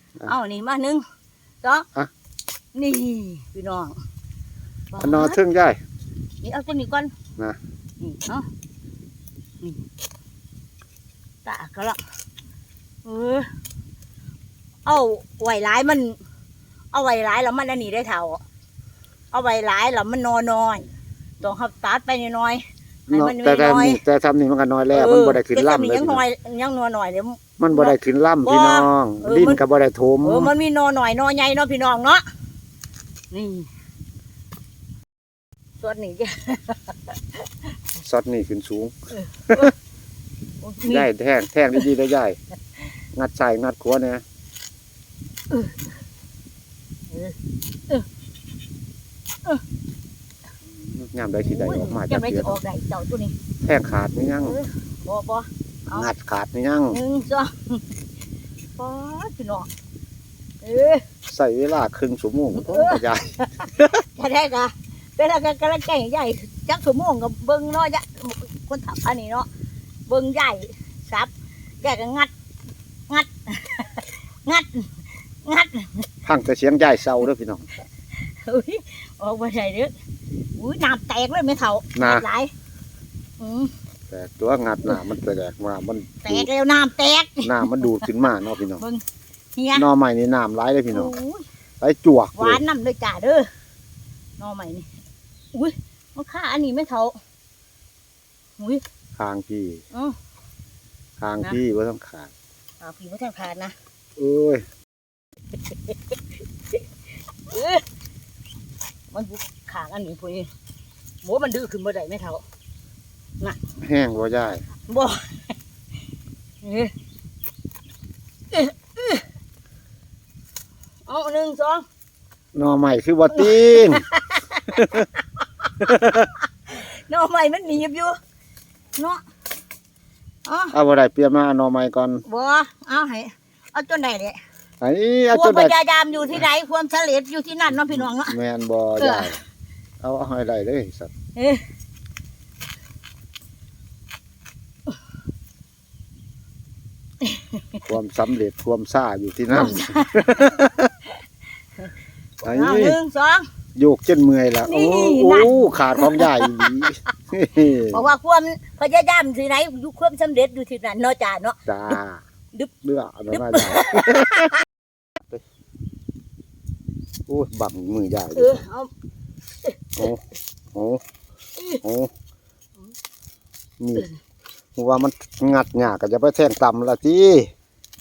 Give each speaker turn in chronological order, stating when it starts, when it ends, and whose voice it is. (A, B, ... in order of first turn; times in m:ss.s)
0:00.2-0:01.0 A
0:01.6-0:01.9 A
0:02.8-0:04.0 A
0:04.9-0:05.4 A
0:05.0-0:05.8 B
0:06.4-0:07.1 A
0:08.0-0:08.5 A
0:11.4-0:12.0 A
0:13.0-0:13.5 A
0:14.8-0:16.2 A
0:16.9-0:18.4 A
0:19.3-0:20.9 A
0:21.4-0:24.0 A
0:23.1-0:26.2 B
0:24.9-0:29.6 A
0:27.6-0:30.5 B
0:30.2-0:32.3 A
0:33.3-0:33.7 A
0:35.8-0:37.4 A
0:38.0-0:38.9 B
0:39.2-0:39.7 A
0:40.6-0:41.1 A
0:40.8-0:42.4 B
0:43.2-0:44.2 B
0:45.5-0:45.8 A
0:47.1-0:47.4 A
0:50.8-0:52.6 B
0:51.4-0:53.4 A
0:53.6-0:54.6 B
0:54.4-0:56.1 A
0:55.9-0:57.0 B
0:56.9-0:57.9 A
0:58.8-0:59.7 A
1:00.6-1:01.0 A
1:01.3-1:04.0 B
1:02.6-1:09.5 A
1:10.1-1:12.3 A
1:13.1-1:16.1 A
1:16.2-1:17.7 B
1:18.1-1:19.9 A
1:20.6-1:22.5 A
1:22.0-1:22.2 B
1:23.4-1:23.7 A
1:24.1-1:26.5 B
1:26.2-1:28.2 A
1:27.4-1:28.8 B
1:28.8-1:29.0 A
1:29.6-1:29.9 A
1:29.7-1:31.1 B
1:30.9-1:31.5 A
1:31.8-1:32.6 B
1:32.4-1:33.5 A
1:34.4-1:34.9 A
1:35.5-1:37.2 A
1:39.2-1:39.8 B
1:41.2-1:42.3 B
1:42.8-1:43.8 A
1:44.2-1:44.6 B
1:45.7-1:46.0 A
1:47.5-1:47.8 A
1:49.1-1:50.5 A
1:51.2-1:52.4 A
1:53.8-1:54.6 B
1:54.9-1:55.5 A
1:56.6-1:56.9 A
1:58.5-1:59.2 A
2:01.1-2:01.9 A
2:02.6-2:04.1 B
2:03.3-2:08.2 A
2:04.8-2:05.0 B
2:05.8-2:06.3 B
2:09.0-2:09.2 A
2:10.5-2:10.8 A
2:10.7-2:12.2 B
2:12.2-2:14.4 A
2:14.8-2:15.8 B
2:15.3-2:18.4 A
2:17.9-2:19.4 B
2:19.0-2:19.3 A
2:20.0-2:21.1 B
2:21.4-2:21.6 A
2:27.2-2:27.8 A
2:27.8-2:30.9 B
2:29.5-2:30.5 A
2:32.4-2:33.5 A
2:32.4-2:33.0 B
2:33.8-2:38.1 B
2:34.7-2:36.9 A
2:37.8-2:42.0 A
2:41.7-2:42.2 B
2:42.8-2:44.5 B
2:43.3-2:44.5 A
2:47.3-2:48.6 B
2:48.3-2:48.9 A
2:49.6-2:50.1 A
2:50.7-2:51.0 B
2:51.8-2:52.1 B
2:53.8-2:54.1 B
2:54.8-2:57.5 B